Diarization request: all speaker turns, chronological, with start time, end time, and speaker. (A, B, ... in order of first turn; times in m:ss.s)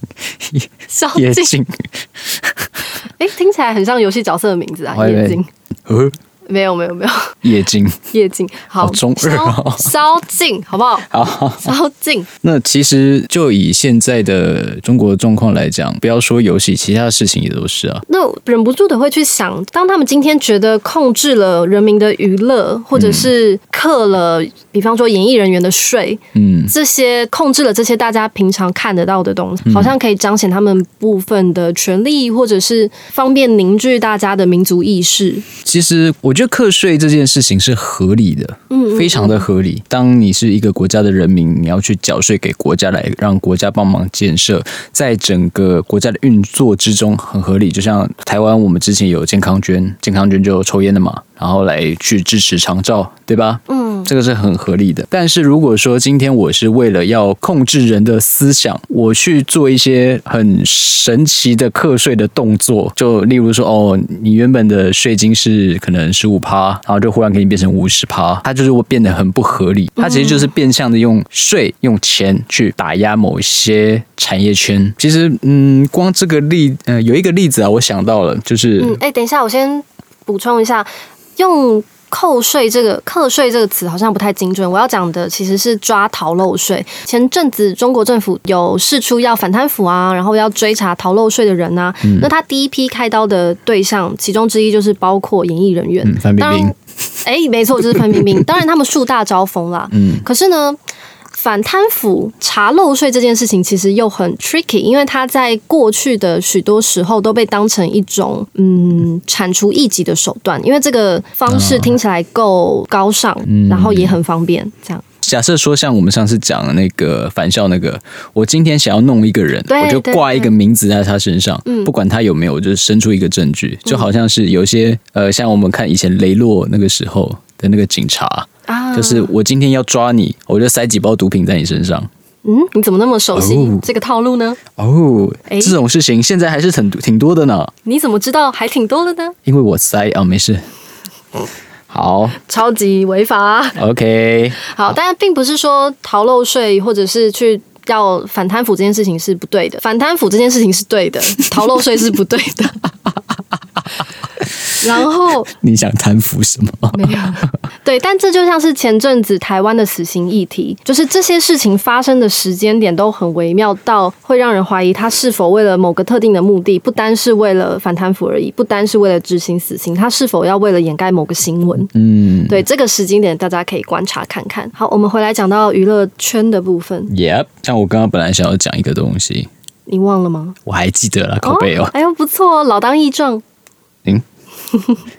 0:00.2-0:02.8 A
0:00.9-0:01.5 B
0:03.2-0:05.5 B
0:04.9-0:06.2 A
0:06.5-0:07.4 B
0:07.4-0:08.0 A
0:08.1-0:11.1 B
0:08.8-0:10.0 A
0:11.1-0:11.8 A
0:11.6-0:12.3 B
0:12.4-0:18.0 A
0:18.1-0:35.5 B
0:23.0-0:23.3 A
0:26.4-0:26.7 A
0:29.6-0:30.0 A
0:35.6-1:19.0 A
0:38.7-0:39.4 B
0:53.7-0:54.1 B
1:10.0-1:10.5 B
1:18.8-1:40.8 B
1:32.0-1:32.3 A
1:36.0-1:36.7 A
1:37.9-1:38.4 A
1:39.9-1:40.3 A
1:41.4-1:55.0 B
1:51.5-1:52.0 A
1:53.5-1:54.2 A
1:55.2-2:12.1 A
1:59.7-2:00.5 B
2:01.6-2:01.9 B
2:08.7-2:09.3 B
2:12.4-2:14.6 B
2:13.3-2:13.8 A
2:14.8-2:17.7 A
2:15.5-2:15.8 B
2:17.8-2:19.4 B
2:19.5-2:20.7 A
2:21.9-2:22.4 A
2:22.4-2:23.8 B
2:23.8-2:24.6 A
2:24.6-2:32.8 B
2:34.8-2:35.5 B
2:35.5-2:37.5 A
2:36.9-2:51.9 B
2:51.9-2:52.6 A
2:52.5-2:57.1 B
2:57.1-2:59.5 A
2:59.9-3:00.6 B
3:00.7-3:01.9 A
3:01.4-3:03.4 B